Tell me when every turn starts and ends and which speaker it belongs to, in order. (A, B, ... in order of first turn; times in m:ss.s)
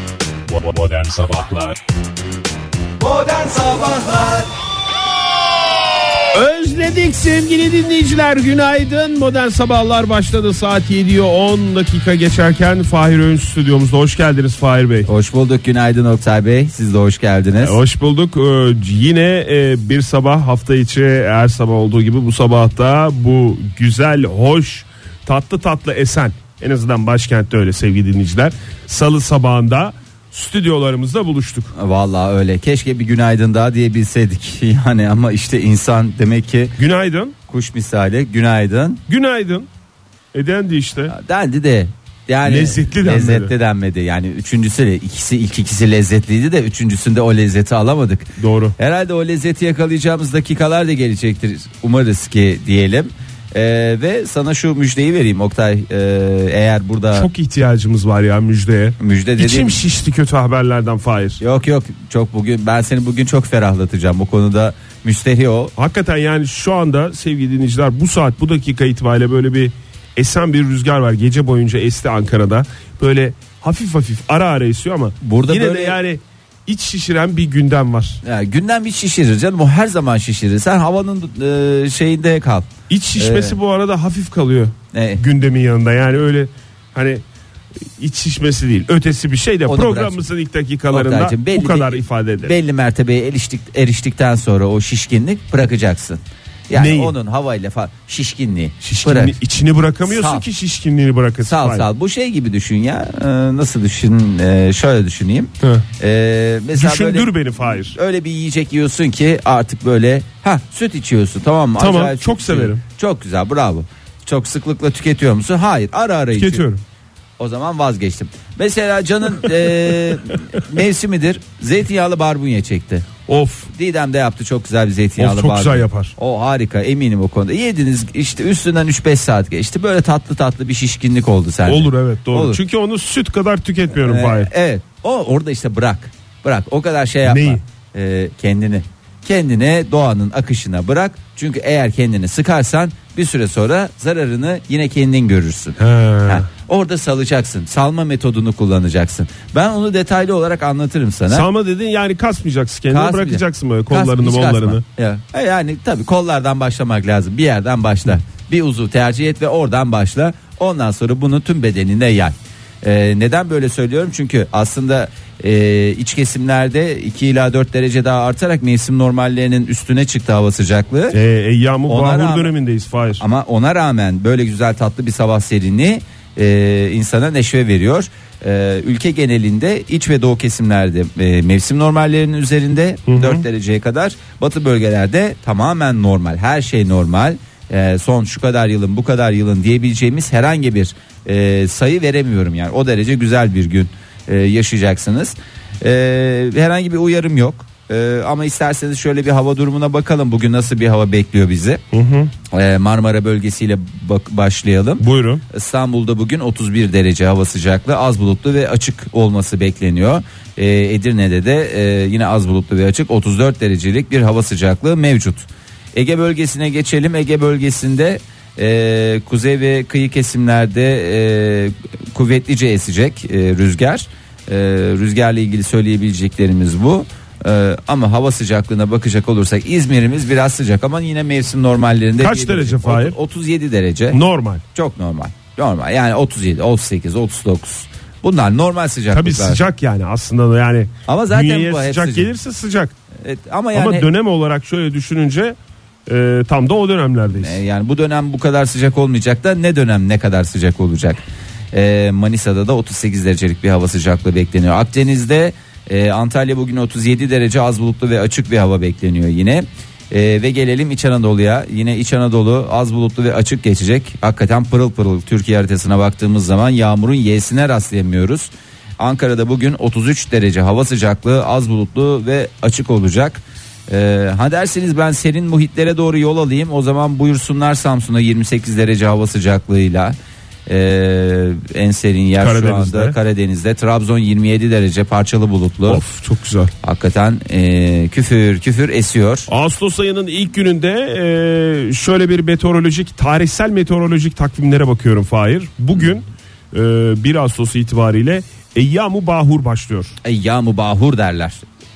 0:00.5-0:01.6 A
0:03.0-0:04.4 A
0:06.3-0:15.1 A
0:15.0-0:17.8 B
0:17.6-0:31.7 A
0:31.7-0:36.7 B
0:36.8-0:37.3 A
0:37.5-0:39.0 B
0:39.1-0:39.7 A
0:40.3-0:41.1 A
0:41.1-0:57.3 B
0:42.4-0:43.5 A
0:48.4-0:48.7 A
0:57.1-1:01.4 A
0:59.0-0:59.8 B
1:01.4-1:05.7 B
1:05.8-1:18.2 A
1:15.2-1:16.0 B
1:18.2-1:23.6 B
1:22.9-1:27.2 A
1:24.9-1:25.2 B
1:28.0-1:32.5 A
1:29.7-1:30.2 B
1:30.9-1:39.4 B
1:36.7-1:37.2 A
1:38.8-1:41.9 A
1:40.0-1:40.4 B
1:41.4-1:56.6 B
1:46.8-1:48.0 A
1:51.8-1:52.8 A
1:56.3-1:56.8 A
1:57.4-2:03.1 B
2:03.3-2:03.7 A
2:03.7-2:12.6 B
2:05.2-2:06.1 A
2:11.7-2:14.5 A
2:13.9-2:31.4 B
2:17.2-2:17.6 A
2:25.8-2:26.4 A
2:31.3-2:34.8 A
2:32.9-2:51.2 B
2:51.1-2:53.2 A
2:51.9-2:52.5 B
2:53.2-3:21.8 B
3:03.1-3:03.4 A
3:21.9-3:22.3 A
3:22.5-3:54.2 B
3:25.0-3:25.4 A
3:52.2-3:53.2 A
3:54.1-3:54.6 A
3:54.7-3:59.6 B
3:59.1-4:02.9 A
4:01.1-4:02.3 B
4:03.2-4:04.1 B
4:03.7-4:07.6 A
4:07.4-4:11.2 B
4:11.7-4:40.2 B
4:40.7-4:46.0 B
4:42.4-4:43.2 A
4:45.9-4:46.7 A
4:46.8-4:49.5 B
4:49.5-5:00.1 A
5:00.2-5:01.6 B